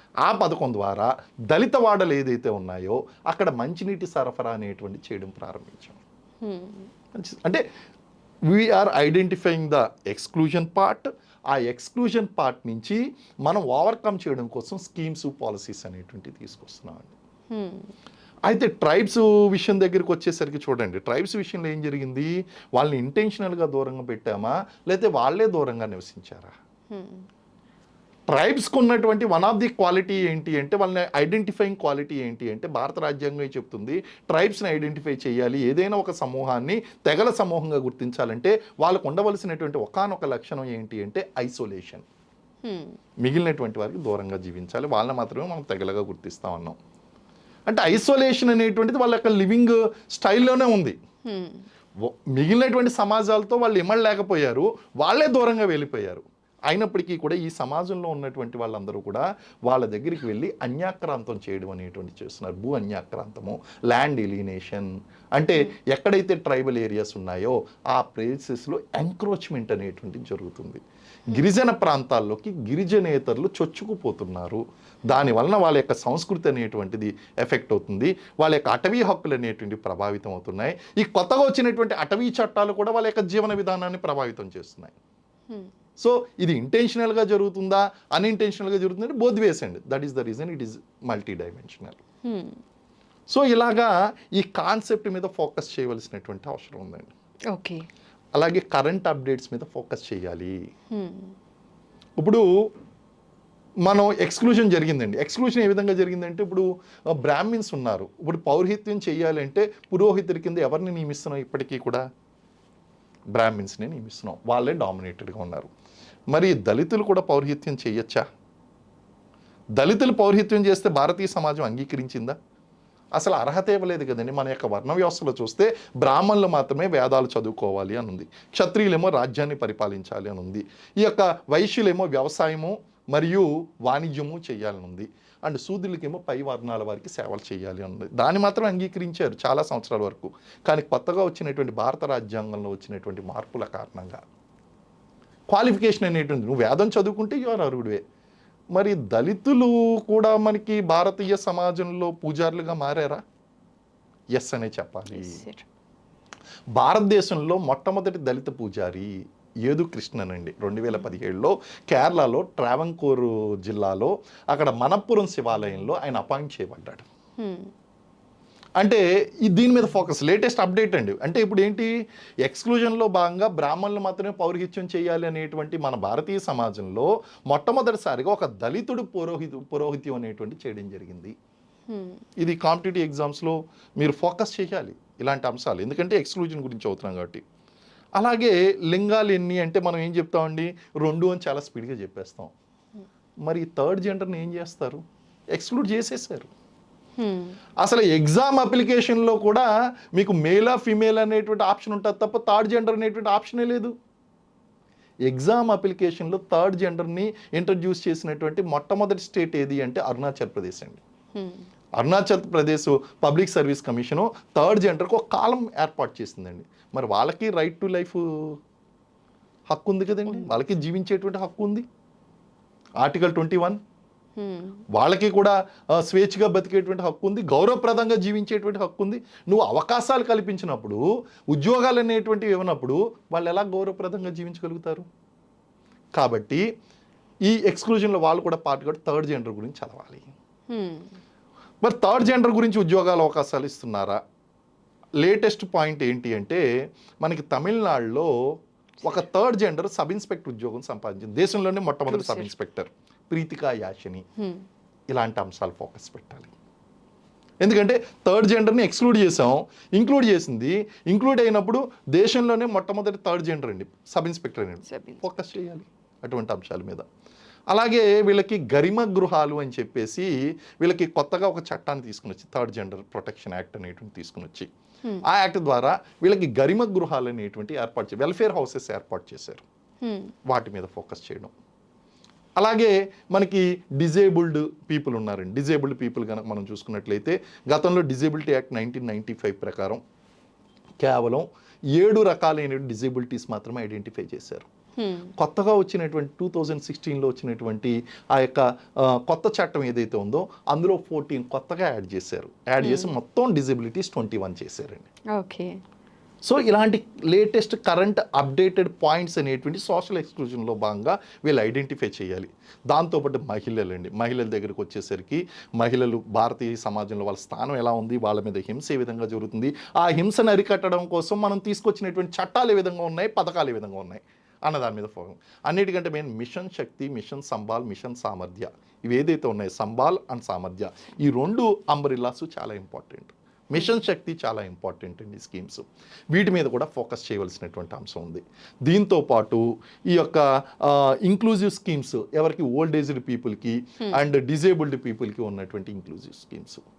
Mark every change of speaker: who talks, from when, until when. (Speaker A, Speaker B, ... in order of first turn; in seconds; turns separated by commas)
Speaker A: 0.2-6.0, Speaker B: 6.4-6.9, Speaker A: 7.1-7.6, Speaker A: 8.5-17.1, Speaker B: 17.5-17.9, Speaker A: 18.5-26.5, Speaker B: 26.9-27.2, Speaker A: 28.3-42.0, Speaker B: 42.6-43.0, Speaker A: 43.2-46.8, Speaker A: 47.7-51.0, Speaker B: 51.2-51.6, Speaker A: 52.0-84.9, Speaker A: 86.0-92.0, Speaker B: 92.2-92.6, Speaker A: 93.3-97.1, Speaker B: 97.5-97.8, Speaker A: 98.3-100.5, Speaker B: 100.9-101.3, Speaker A: 102.2-102.5, Speaker A: 103.8-112.0, Speaker A: 113.3-115.7, Speaker A: 116.3-118.2, Speaker A: 119.8-122.4, Speaker A: 123.2-144.2, Speaker A: 145.5-148.0, Speaker A: 148.7-153.2, Speaker A: 154.3-155.4, Speaker B: 155.1-155.7, Speaker A: 156.7-159.1, Speaker A: 159.7-167.1, Speaker B: 167.4-167.7, Speaker A: 168.8-171.9, Speaker A: 172.4-181.3, Speaker B: 181.9-182.2, Speaker A: 182.4-187.4, Speaker A: 188.2-192.5, Speaker A: 193.4-195.0, Speaker A: 195.5-196.5, Speaker B: 197.2-197.6, Speaker A: 197.8-203.9, Speaker A: 205.3-211.0, Speaker B: 211.3-211.6, Speaker A: 212.0-218.6, Speaker A: 219.7-221.8, Speaker A: 223.0-223.8, Speaker B: 224.4-224.8, Speaker A: 224.9-235.1, Speaker A: 236.2-236.6, Speaker A: 237.5-240.3, Speaker B: 240.7-241.1, Speaker A: 241.8-244.2, Speaker A: 245.2-246.6, Speaker A: 247.2-248.3, Speaker A: 249.0-254.2, Speaker B: 252.1-252.5, Speaker A: 255.1-256.5, Speaker A: 257.6-267.1, Speaker B: 264.9-265.2, Speaker A: 267.7-274.7, Speaker A: 275.2-279.6, Speaker B: 280.0-280.3, Speaker A: 280.5-281.5, Speaker A: 282.6-290.0, Speaker A: 291.0-294.6, Speaker B: 295.0-295.3, Speaker A: 295.4-305.1, Speaker B: 302.8-303.1, Speaker B: 305.3-305.8, Speaker A: 306.4-346.8